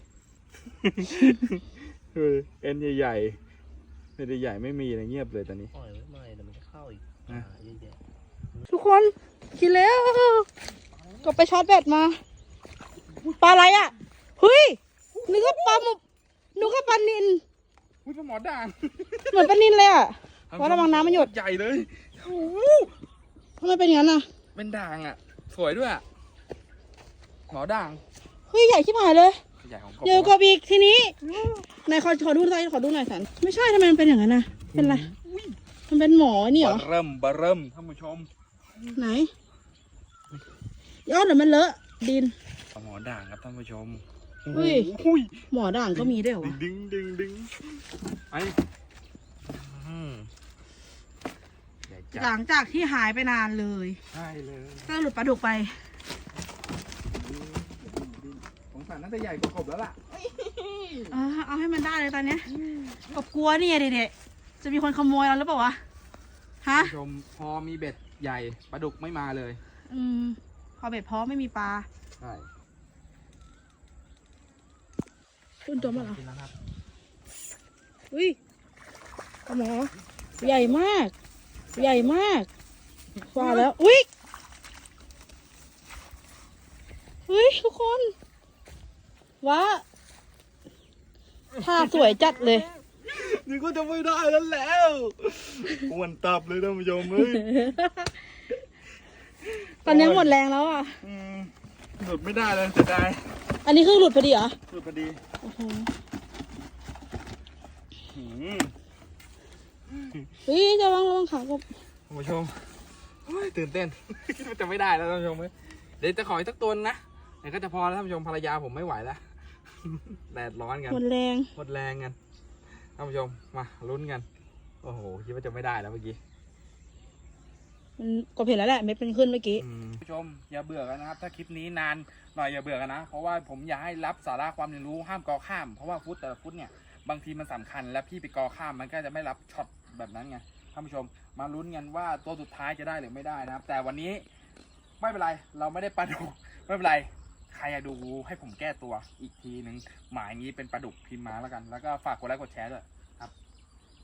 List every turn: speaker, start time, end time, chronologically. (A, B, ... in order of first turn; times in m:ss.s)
0:00.7-0:03.4 A
0:04.2-0:05.7 A
0:05.7-0:08.0 B
0:08.7-0:10.5 C
0:10.9-0:11.3 A
0:11.2-0:12.2 C
0:13.1-0:13.9 A
0:13.4-0:16.0 C
0:15.1-0:15.8 A
0:16.6-0:17.4 C
0:18.0-0:19.6 A
0:19.3-0:21.3 C
0:20.5-0:22.9 A
0:23.6-0:24.3 C
0:24.5-0:26.0 A
0:27.5-0:28.0 A
0:28.5-0:29.4 C
0:29.6-0:30.4 A
0:30.0-0:31.2 C
0:31.2-0:31.7 A
0:31.8-0:35.1 C
0:34.7-0:35.6 A
0:35.9-0:36.8 C
0:36.6-0:39.0 A
0:39.0-0:39.3 C
0:41.1-0:42.3 C
0:42.7-0:47.6 A
0:44.5-0:44.9 C
0:45.5-0:46.6 C
0:48.3-0:48.6 A
0:49.5-0:50.3 A
0:51.9-0:52.3 A
0:52.2-0:54.0 C
0:54.1-0:54.9 A
0:54.8-0:55.7 C
0:57.1-1:00.0 A
1:00.1-1:01.1 B
1:01.1-1:02.5 C
1:03.1-1:05.8 C
1:06.6-1:06.9 C
1:06.8-1:09.6 A
1:09.9-1:11.9 C
1:12.2-1:12.5 A
1:15.7-1:16.2 C
1:15.8-1:16.5 A
1:18.1-1:18.4 C
1:19.5-1:21.1 C
1:20.4-1:20.8 A
1:21.7-1:22.1 A
1:21.7-1:22.5 C
1:23.3-1:24.1 C
1:23.3-1:23.7 A
1:27.3-1:28.1 C
1:29.4-1:29.8 C
1:31.6-1:37.7 A
1:31.6-1:32.7 C
1:37.2-1:38.1 C
1:39.4-1:40.4 A
1:39.8-1:41.0 C
1:41.0-1:43.2 A
1:43.6-1:44.6 C
1:44.7-1:45.2 A
1:45.4-1:45.9 C
1:48.1-1:48.7 A
1:49.9-1:50.3 A
1:50.5-1:51.6 C
1:52.1-1:52.5 A
1:53.2-2:01.0 A
2:00.9-2:01.5 C
2:01.6-2:02.2 A
2:03.0-2:04.3 A
2:04.8-2:06.2 A
2:08.0-2:09.6 C
2:09.6-2:24.2 A
2:25.0-2:33.3 A